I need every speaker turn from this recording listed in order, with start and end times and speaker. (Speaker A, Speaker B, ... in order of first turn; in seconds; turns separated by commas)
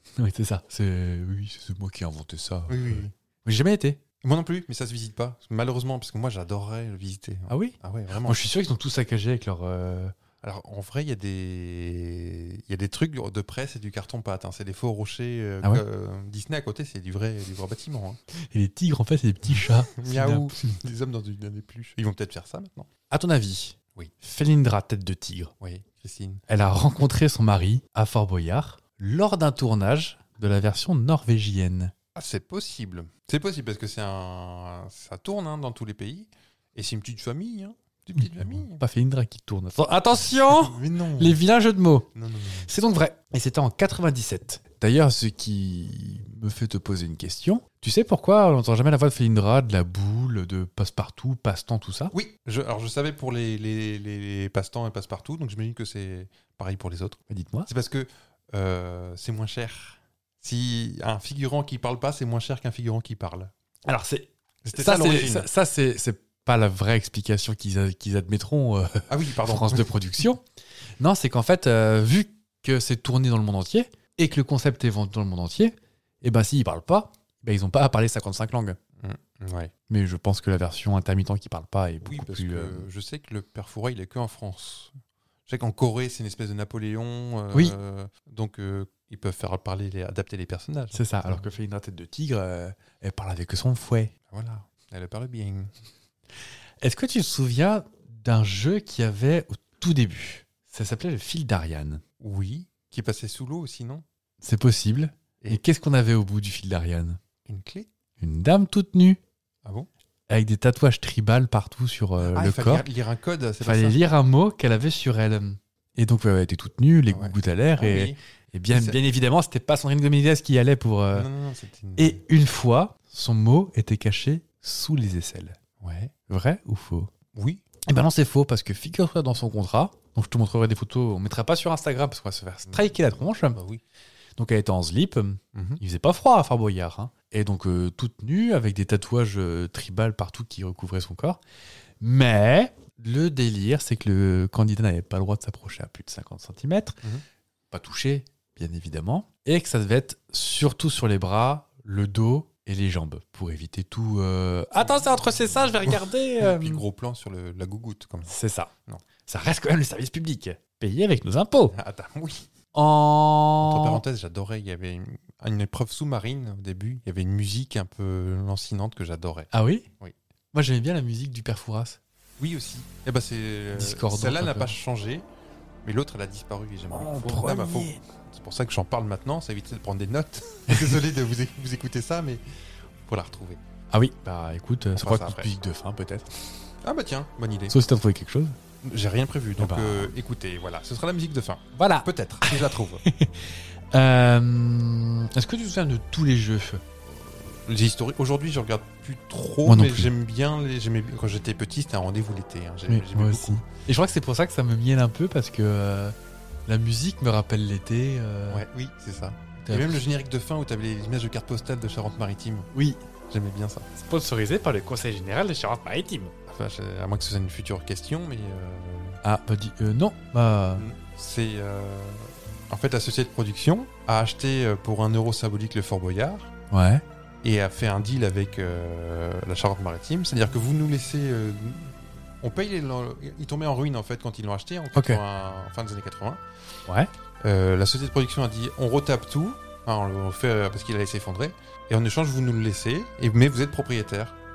Speaker A: 0.2-4.0, Speaker B: 2.7-3.1, Speaker B: 4.2-8.5, Speaker A: 7.5-10.1, Speaker B: 10.4-18.2, Speaker A: 18.5-20.5, Speaker B: 19.9-22.9, Speaker A: 23.1-25.5, Speaker B: 25.6-26.4, Speaker A: 26.5-31.9, Speaker B: 32.1-38.8, Speaker A: 38.2-42.1, Speaker B: 40.5-41.4, Speaker B: 42.1-42.7, Speaker A: 42.7-52.1, Speaker B: 52.1-63.5, Speaker A: 57.3-57.7, Speaker A: 63.9-70.4, Speaker B: 64.6-65.5, Speaker B: 69.1-69.9, Speaker A: 71.0-78.8, Speaker B: 79.0-79.7, Speaker A: 79.9-82.9, Speaker B: 82.0-84.9, Speaker B: 85.5-91.5, Speaker A: 90.9-94.1, Speaker B: 94.3-95.7, Speaker A: 96.8-102.0, Speaker B: 102.2-104.0, Speaker A: 104.4-107.2, Speaker B: 107.4-107.9, Speaker A: 108.2-109.2, Speaker B: 109.6-109.9, Speaker A: 110.3-112.8, Speaker B: 112.2-114.1, Speaker A: 113.6-121.3, Speaker B: 117.1-118.2, Speaker B: 118.7-119.0, Speaker B: 121.1-122.2, Speaker A: 122.0-125.6, Speaker B: 125.8-126.1, Speaker A: 126.3-127.1, Speaker B: 127.3-127.6, Speaker A: 127.8-133.6, Speaker B: 133.5-133.8, Speaker A: 134.4-141.4, Speaker B: 135.5-135.8, Speaker A: 142.0-147.0, Speaker A: 147.7-156.8, Speaker B: 154.8-155.1, Speaker B: 155.6-158.3, Speaker A: 158.3-158.7, Speaker A: 159.2-161.7, Speaker B: 161.7-162.5, Speaker A: 162.7-164.0, Speaker B: 163.6-170.1, Speaker A: 169.5-169.8, Speaker A: 170.5-172.0, Speaker B: 172.4-175.2, Speaker A: 173.7-174.7, Speaker B: 175.8-182.4, Speaker A: 176.9-178.0, Speaker B: 183.1-183.6, Speaker A: 183.9-186.3, Speaker B: 184.9-185.5, Speaker B: 186.8-187.8, Speaker A: 187.7-188.6, Speaker B: 188.8-193.0, Speaker A: 189.6-190.1, Speaker A: 191.7-196.8, Speaker B: 197.1-203.7, Speaker A: 199.7-200.1, Speaker A: 202.9-206.1, Speaker A: 206.7-208.6, Speaker B: 208.5-212.7, Speaker A: 209.6-210.0, Speaker A: 212.7-213.0, Speaker B: 213.3-213.9, Speaker A: 213.9-216.3, Speaker B: 216.5-219.2, Speaker A: 219.2-220.8, Speaker B: 220.7-226.5, Speaker A: 226.7-227.0, Speaker B: 227.4-236.4, Speaker A: 234.9-235.2, Speaker B: 237.4-244.3